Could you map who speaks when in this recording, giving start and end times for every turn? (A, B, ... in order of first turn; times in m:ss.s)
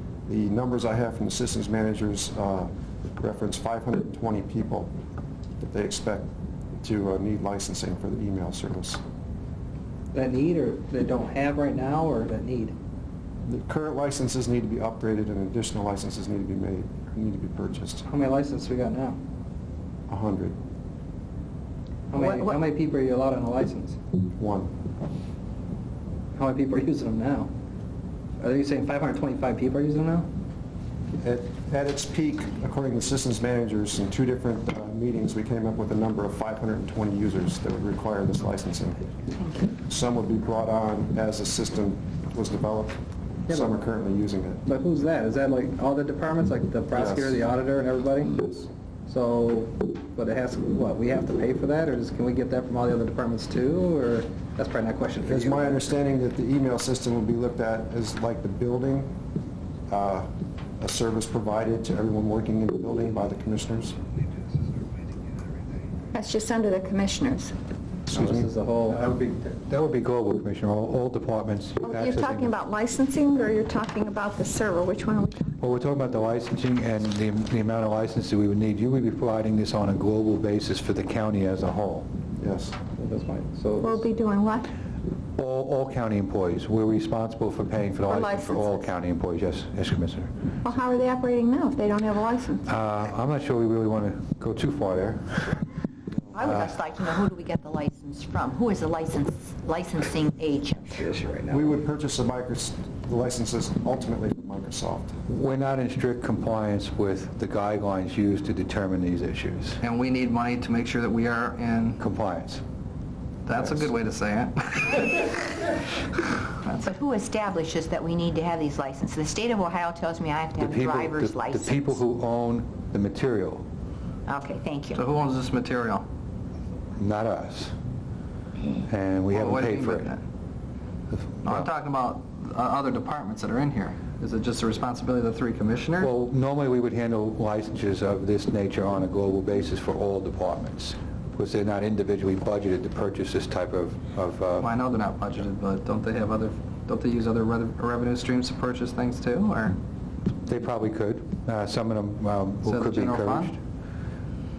0:00.3-0:04.9 A
0:05.6-0:06.3 A
0:06.8-0:09.0 A
0:10.1-0:12.7 B
0:13.5-0:18.1 A
0:18.1-0:19.2 B
0:20.1-0:20.6 A
0:22.1-0:24.0 B
0:22.2-0:22.5 C
0:24.4-0:24.7 A
0:26.4-0:27.5 B
0:28.4-0:30.3 B
0:31.2-0:39.0 A
0:39.4-0:39.7 C
0:39.8-0:44.6 A
0:43.5-0:43.8 B
0:44.7-0:48.5 B
0:46.9-0:47.4 A
0:49.1-0:55.9 B
0:55.2-0:59.1 A
0:59.9-1:04.0 A
1:06.1-1:07.5 D
1:08.1-1:08.4 A
1:08.1-1:09.0 B
1:08.9-1:12.5 E
1:11.8-1:15.6 D
1:15.6-1:22.1 E
1:22.4-1:22.8 A
1:23.0-1:24.0 B
1:23.8-1:24.7 D
1:25.4-1:30.3 E
1:28.1-1:28.9 D
1:30.6-1:32.6 D
1:32.7-1:35.6 E
1:36.3-1:41.0 C
1:41.0-1:41.8 B
1:41.5-1:45.1 A
1:45.3-1:49.8 E
1:49.8-1:52.0 B
1:52.0-1:52.6 E
1:53.5-1:56.7 B
1:53.5-1:53.9 A
1:56.7-2:02.0 C
2:00.6-2:03.6 E
2:04.3-2:05.0 C
2:05.0-2:06.0 B
2:07.0-2:07.7 E
2:08.9-2:10.1 E
2:09.3-2:10.2 B
2:11.1-2:11.7 E
2:11.4-2:16.1 B
2:16.0-2:24.7 E
2:24.6-2:29.8 B
2:30.4-2:33.6 E
2:32.6-2:33.5 B